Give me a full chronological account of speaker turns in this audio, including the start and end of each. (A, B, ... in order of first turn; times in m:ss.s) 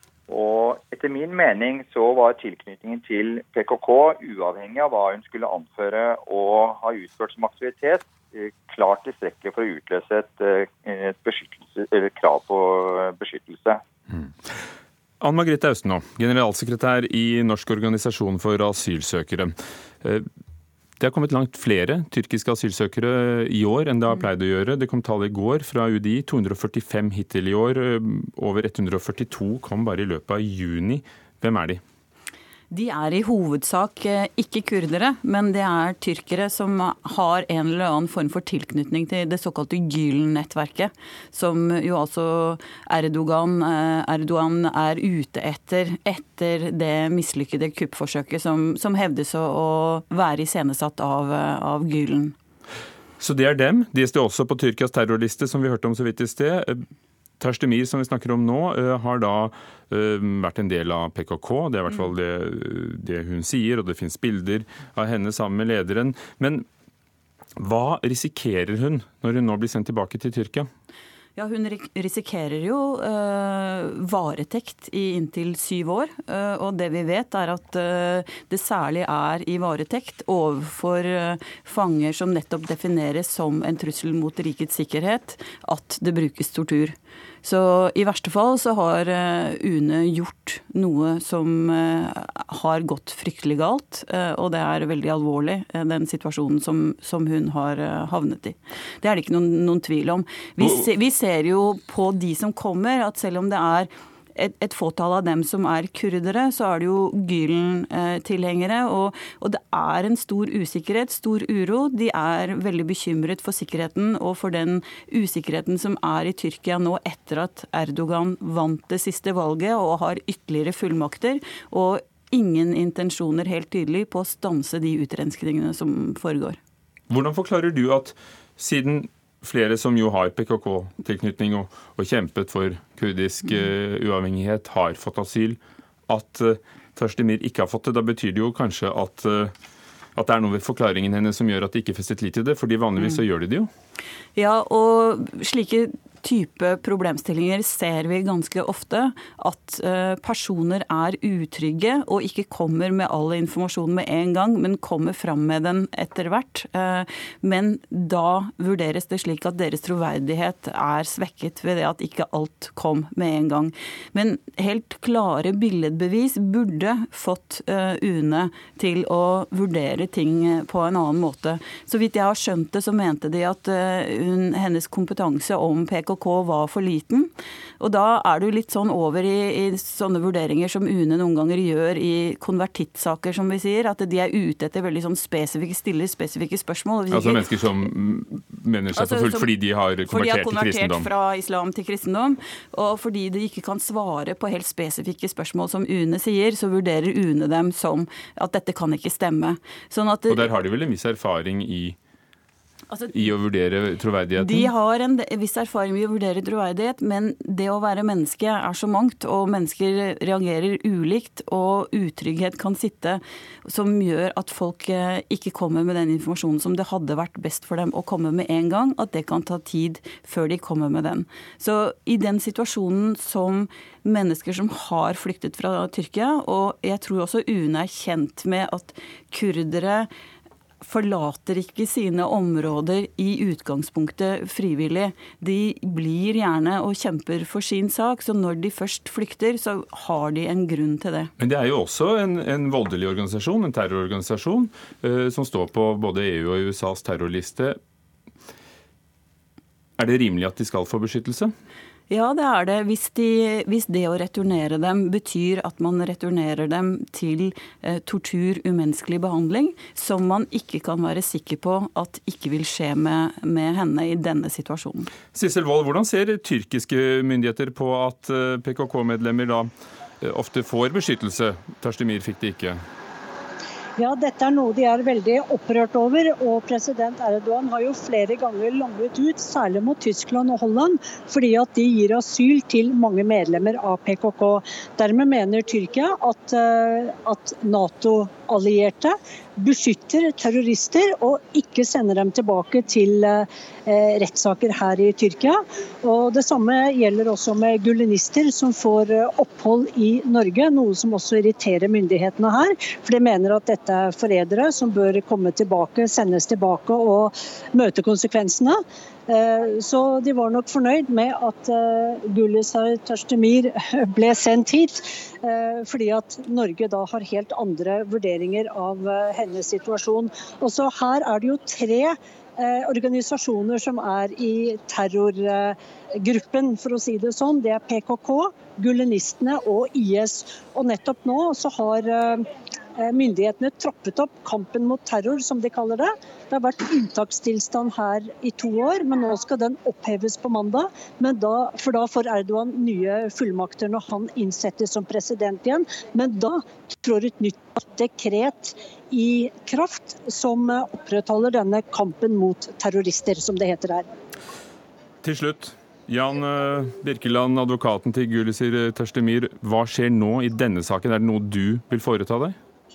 0:00.3-0:13.8 A
0:15.2-0:20.2 B
0:21.0-0:31.8 B
0:32.7-0:52.3 C
0:53.2-0:56.8 B
0:57.4-1:06.6 B
1:07.6-1:10.7 B
1:11.4-2:06.6 C
1:40.6-1:40.9 B
2:07.1-2:19.5 B
2:20.2-2:23.7 B
2:23.0-2:23.2 C
2:24.4-3:07.5 C
3:07.1-3:11.1 B
3:08.9-3:20.5 C
3:20.3-3:22.0 B
3:22.9-3:23.2 C
3:23.1-3:24.7 B
3:24.4-3:50.1 C
3:50.8-4:01.3 C
4:01.4-4:07.8 B
4:10.0-4:11.5 B
4:12.1-4:25.1 C
4:25.3-4:29.7 B
4:30.2-4:32.8 B
4:34.0-5:54.0 D
5:55.2-6:02.6 B